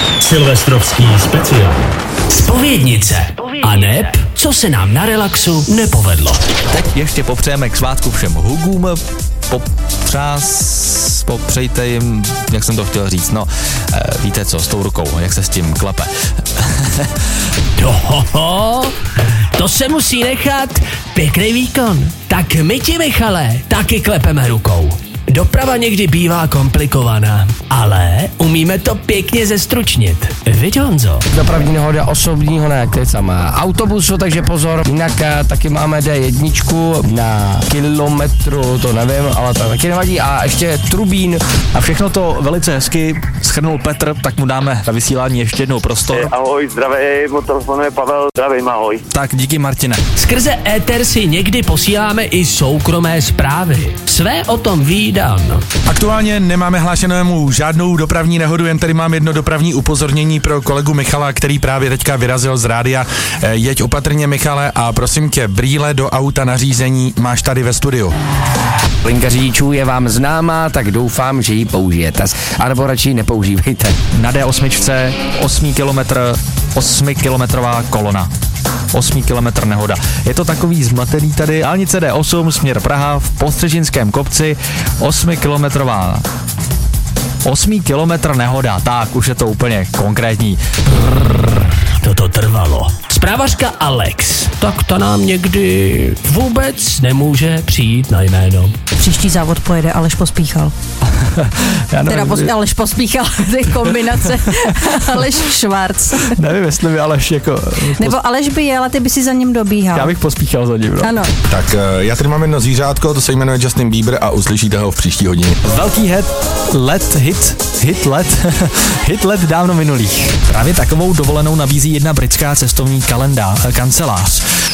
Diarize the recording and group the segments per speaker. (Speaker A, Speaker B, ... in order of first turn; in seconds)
Speaker A: 0.2-1.8, 2.3-6.4, 17.8-18.9, 19.5-31.2, 50.2-55.6, 92.0-98.7
Speaker B: 6.7-17.1, 41.7-46.3, 49.1-50.0, 74.1-78.3, 78.9-86.2, 87.5-90.6, 101.2-102.5, 103.6-105.3, 106.2-108.2, 109.9-111.2, 115.6-124.4
Speaker C: 31.3-41.4, 69.0-73.9
Speaker D: 46.1-49.0
Speaker E: 55.9-68.1, 111.5-115.5
Speaker F: 99.0-100.7, 102.1-106.4, 107.9-110.1, 111.0-111.3